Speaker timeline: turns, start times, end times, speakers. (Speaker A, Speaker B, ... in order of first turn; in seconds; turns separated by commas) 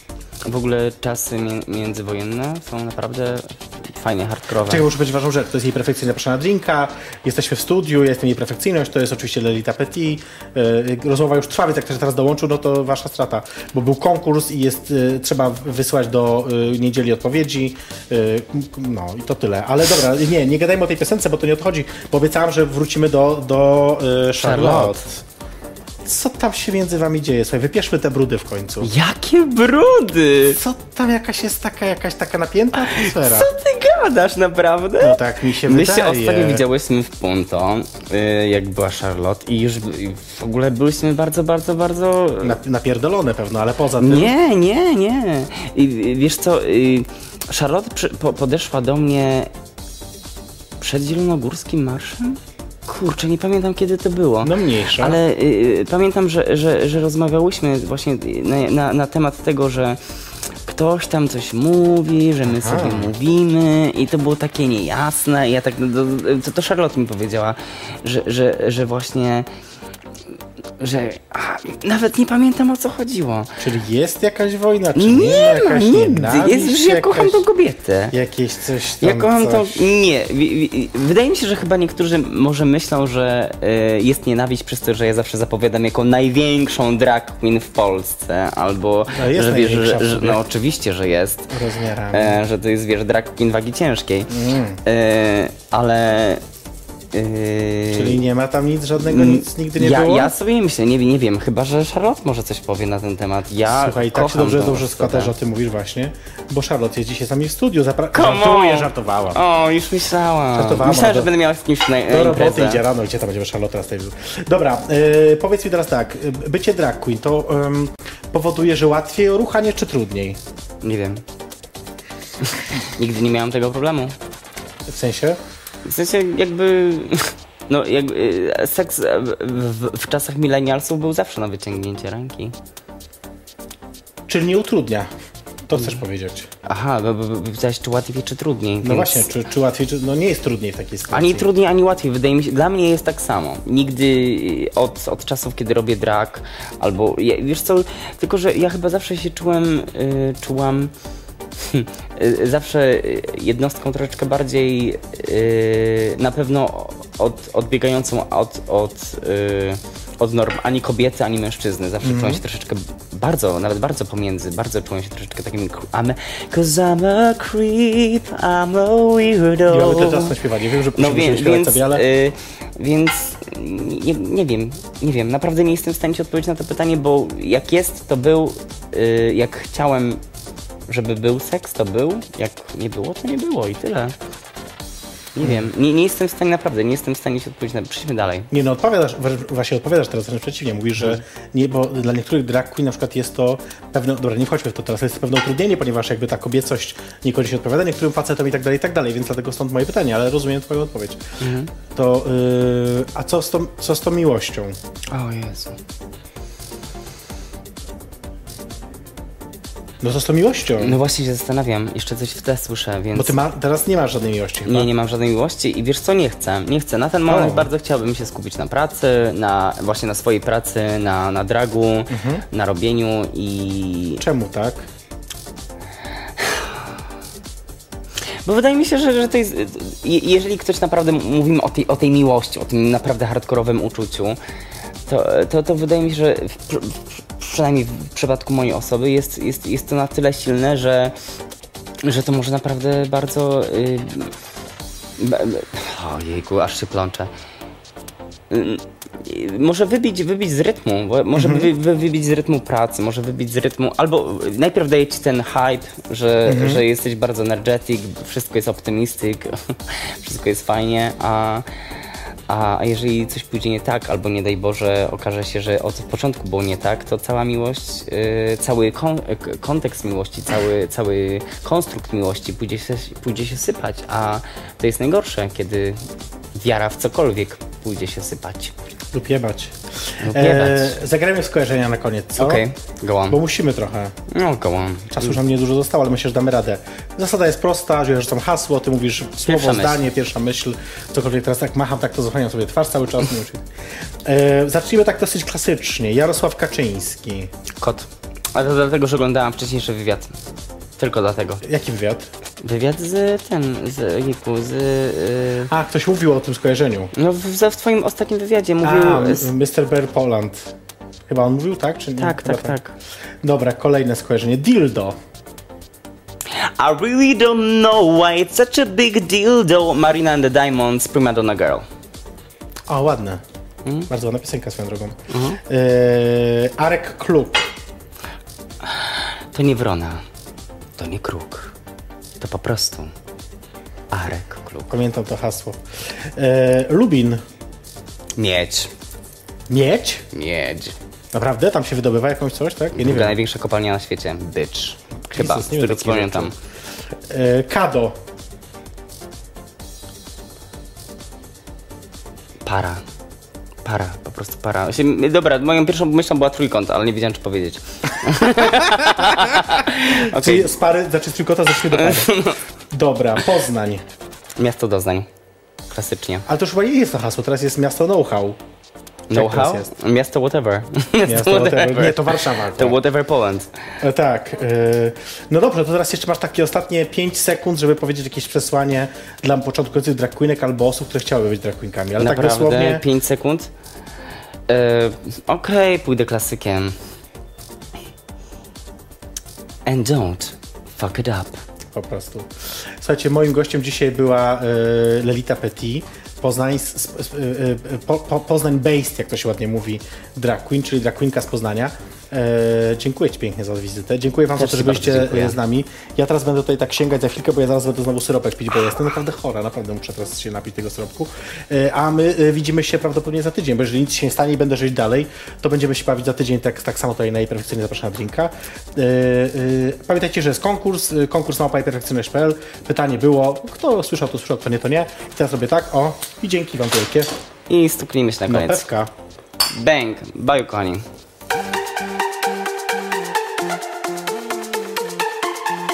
Speaker A: 0.4-4.8, Speaker B: 4.6-25.2, Speaker A: 24.4-25.1, Speaker B: 26.0-28.9, Speaker A: 28.8-30.6, Speaker B: 30.5-33.5, Speaker A: 32.8-42.6, Speaker B: 35.0-36.6, Speaker B: 42.4-44.3, Speaker A: 44.0-49.5, Speaker A: 50.8-60.0, Speaker B: 54.4-55.2, Speaker A: 60.6-69.5, Speaker B: 62.5-63.1, Speaker A: 70.8-73.5, Speaker B: 73.6-77.4, Speaker A: 74.9-78.1, Speaker B: 78.1-79.9, Speaker A: 79.0-91.5, Speaker B: 89.1-90.4, Speaker B: 91.5-92.4, Speaker A: 92.1-96.4, Speaker B: 94.3-94.8, Speaker A: 97.1-98.2, Speaker B: 97.9-100.3, Speaker A: 99.0-105.3, Speaker B: 103.7-109.4, Speaker A: 108.1-112.8, Speaker B: 110.5-111.3, Speaker B: 112.1-120.4, Speaker A: 120.8-121.2, Speaker A: 122.4-124.1, Speaker B: 124.9-125.4, Speaker A: 125.8-132.5, Speaker B: 134.3-135.1, Speaker B: 135.6-136.5, Speaker A: 136.6-139.3, Speaker B: 138.8-141.5, Speaker A: 141.1-150.9, Speaker A: 151.6-170.3, Speaker B: 162.0-162.4, Speaker B: 169.7-172.0, Speaker A: 170.9-180.2, Speaker A: 180.9-184.1, Speaker A: 185.3-188.5, Speaker B: 185.4-185.7, Speaker B: 188.5-201.2, Speaker A: 201.4-201.7, Speaker B: 201.9-204.8, Speaker A: 205.1-205.8, Speaker B: 210.0-211.0, Speaker A: 210.8-213.3, Speaker B: 213.1-214.9, Speaker A: 214.7-224.2, Speaker B: 217.3-217.7, Speaker B: 222.1-222.4, Speaker B: 224.2-224.9, Speaker A: 226.4-226.9, Speaker A: 228.4-234.4, Speaker A: 235.1-241.1, Speaker A: 242.0-244.3, Speaker A: 245.2-247.3, Speaker A: 248.5-261.7, Speaker B: 251.3-251.7, Speaker B: 256.4-256.8, Speaker A: 262.5-276.0, Speaker A: 276.5-278.7, Speaker B: 279.1-282.6, Speaker A: 280.2-281.0, Speaker A: 282.4-283.4, Speaker B: 283.3-284.1, Speaker A: 284.3-285.4, Speaker B: 285.1-293.6, Speaker A: 289.4-290.0, Speaker B: 294.2-297.5, Speaker A: 297.8-300.3, Speaker A: 301.0-301.6, Speaker B: 301.6-302.3, Speaker A: 302.6-305.7, Speaker B: 305.7-307.1, Speaker A: 307.1-309.5, Speaker B: 308.8-310.7, Speaker B: 311.3-312.8, Speaker A: 312.2-312.9, Speaker B: 313.4-315.2, Speaker A: 316.6-321.8, Speaker B: 322.9-323.4, Speaker B: 324.1-327.7, Speaker A: 325.3-325.6, Speaker A: 328.8-330.2, Speaker A: 331.0-331.7, Speaker A: 332.4-333.1, Speaker A: 334.1-334.9, Speaker B: 334.9-337.4, Speaker A: 338.4-338.9, Speaker B: 339.7-340.2, Speaker A: 340.3-340.9, Speaker B: 341.3-343.3, Speaker A: 342.9-346.5, Speaker B: 345.3-346.5, Speaker B: 347.3-348.2, Speaker A: 352.6-353.0, Speaker A: 353.8-360.7, Speaker B: 360.0-364.0, Speaker A: 361.9-362.6, Speaker A: 364.6-365.3, Speaker A: 365.9-366.4, Speaker B: 366.4-368.6, Speaker A: 369.3-373.7, Speaker B: 369.3-369.9, Speaker B: 371.2-373.0, Speaker B: 374.0-383.1, Speaker A: 382.2-383.7, Speaker A: 384.7-386.9, Speaker A: 389.9-391.6, Speaker B: 391.9-427.3, Speaker A: 404.6-405.6, Speaker A: 427.7-428.9, Speaker B: 428.5-429.1, Speaker A: 429.7-431.1